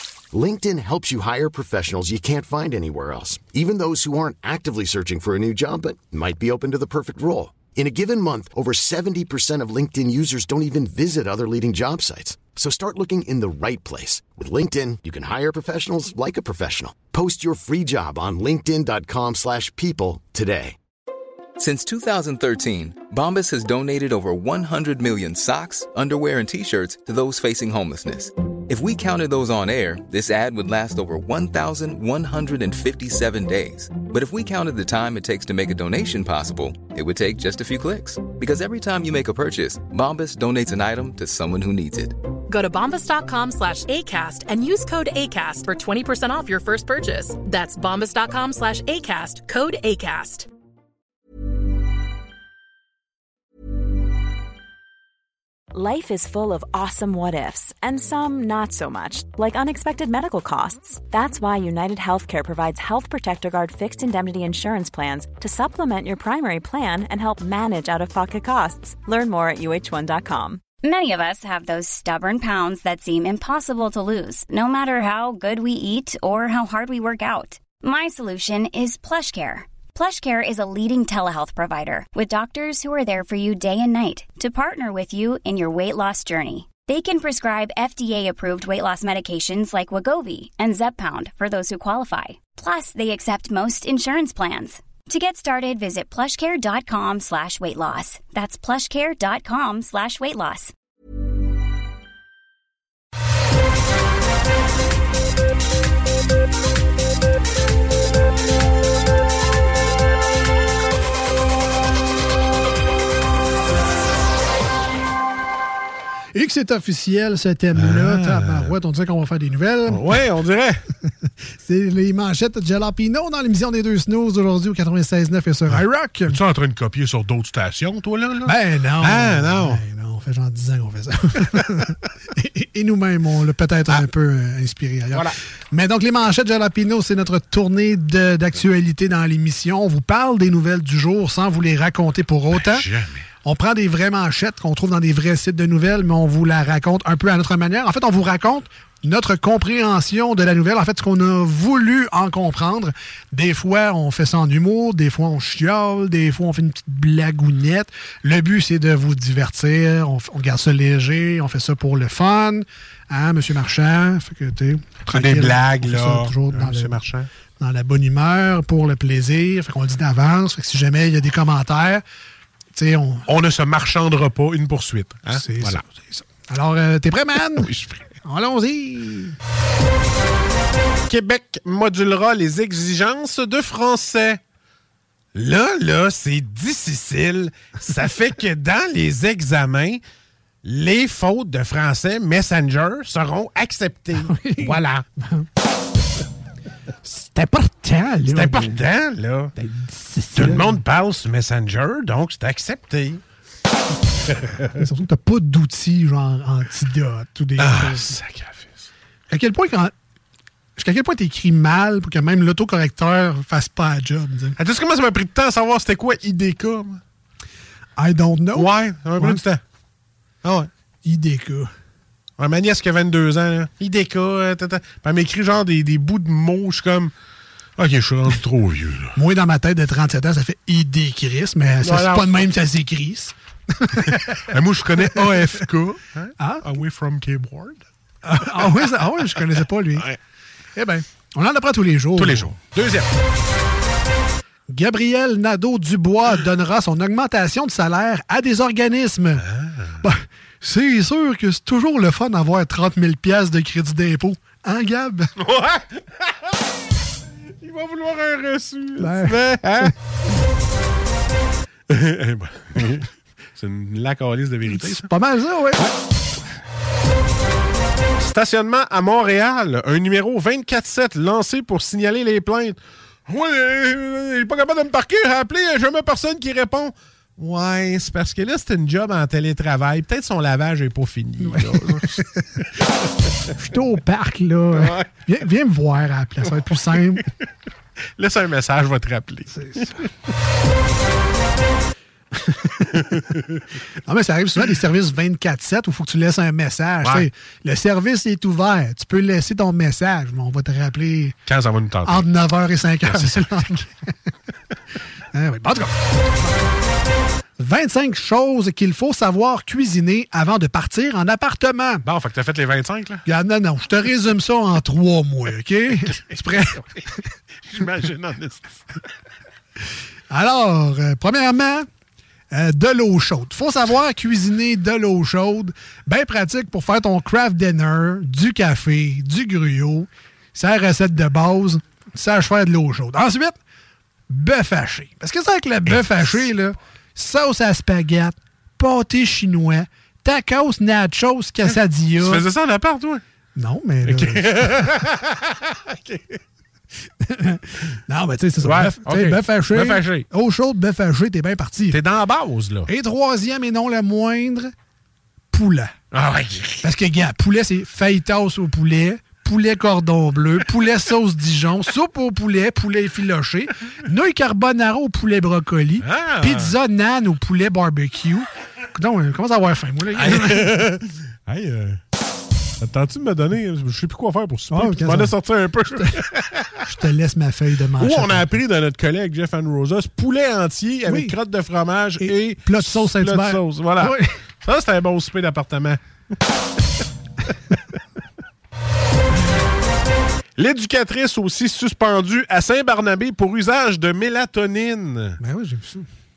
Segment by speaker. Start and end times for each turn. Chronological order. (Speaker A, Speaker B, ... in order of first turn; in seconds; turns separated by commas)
Speaker A: 0.3-20.8, Speaker B: 21.6-42.2, Speaker C: 42.5-50.5, Speaker D: 55.7-70.6, Speaker E: 70.8-100.7, Speaker F: 116.3-120.2, Speaker G: 117.8-118.7, Speaker G: 119.9-120.8, Speaker F: 121.5-126.4, Speaker G: 125.7-129.8, Speaker F: 128.4-142.9, Speaker G: 135.1-135.4, Speaker G: 142.5-143.2, Speaker F: 143.4-167.0, Speaker G: 165.1-167.3, Speaker F: 167.6-172.0, Speaker F: 172.7-173.3, Speaker G: 173.2-175.8, Speaker F: 175.3-177.7, Speaker G: 177.5-178.0, Speaker F: 178.2-179.3, Speaker G: 181.1-184.4, Speaker G: 185.3-190.0, Speaker G: 190.6-195.0, Speaker F: 194.1-195.5, Speaker F: 197.0-198.8, Speaker G: 198.3-199.5, Speaker F: 199.6-200.8, Speaker G: 200.3-203.2, Speaker G: 204.3-204.7, Speaker F: 204.7-208.1, Speaker G: 207.6-208.9, Speaker F: 209.3-209.9, Speaker F: 210.8-214.6, Speaker G: 214.6-217.0, Speaker F: 218.0-219.4, Speaker G: 218.5-219.6, Speaker G: 220.4-220.7, Speaker F: 221.0-221.7, Speaker G: 222.4-227.1, Speaker G: 227.8-229.2, Speaker F: 229.1-235.8, Speaker G: 231.8-232.4, Speaker G: 234.0-237.8, Speaker F: 236.4-236.7, Speaker F: 238.2-240.1, Speaker F: 240.8-242.5, Speaker G: 242.1-243.1, Speaker F: 244.7-249.5, Speaker G: 249.4-250.0, Speaker F: 250.0-255.3, Speaker G: 255.4-256.5, Speaker G: 257.6-259.9, Speaker F: 259.0-259.9, Speaker G: 261.9-265.1, Speaker F: 264.6-265.9, Speaker G: 268.2-282.2, Speaker F: 281.4-282.4, Speaker F: 283.6-287.2, Speaker G: 284.7-285.1, Speaker G: 288.2-290.1, Speaker F: 292.3-293.1, Speaker G: 293.0-293.6, Speaker F: 294.0-301.4, Speaker G: 297.0-297.3, Speaker G: 301.5-302.3, Speaker F: 302.0-303.9, Speaker G: 303.1-303.4, Speaker F: 305.3-306.6, Speaker F: 307.6-312.1, Speaker G: 312.0-313.2, Speaker F: 313.2-317.1, Speaker G: 317.6-318.8, Speaker F: 320.3-321.9, Speaker F: 322.5-333.6, Speaker F: 334.3-342.4, Speaker G: 335.9-336.4, Speaker G: 342.2-343.2, Speaker F: 343.6-344.8, Speaker G: 344.1-346.4, Speaker F: 347.2-352.0, Speaker G: 348.6-350.2, Speaker G: 351.9-352.9, Speaker F: 352.9-354.7, Speaker F: 355.5-355.9, Speaker G: 356.1-356.9, Speaker F: 356.8-370.8, Speaker G: 366.0-366.7, Speaker G: 370.1-372.0, Speaker G: 372.8-376.8, Speaker F: 374.7-375.4, Speaker F: 375.9-376.1, Speaker F: 376.8-378.5, Speaker G: 378.0-386.0, Speaker F: 381.1-381.4, Speaker F: 382.2-384.3, Speaker G: 390.6-395.4, Speaker F: 395.4-396.0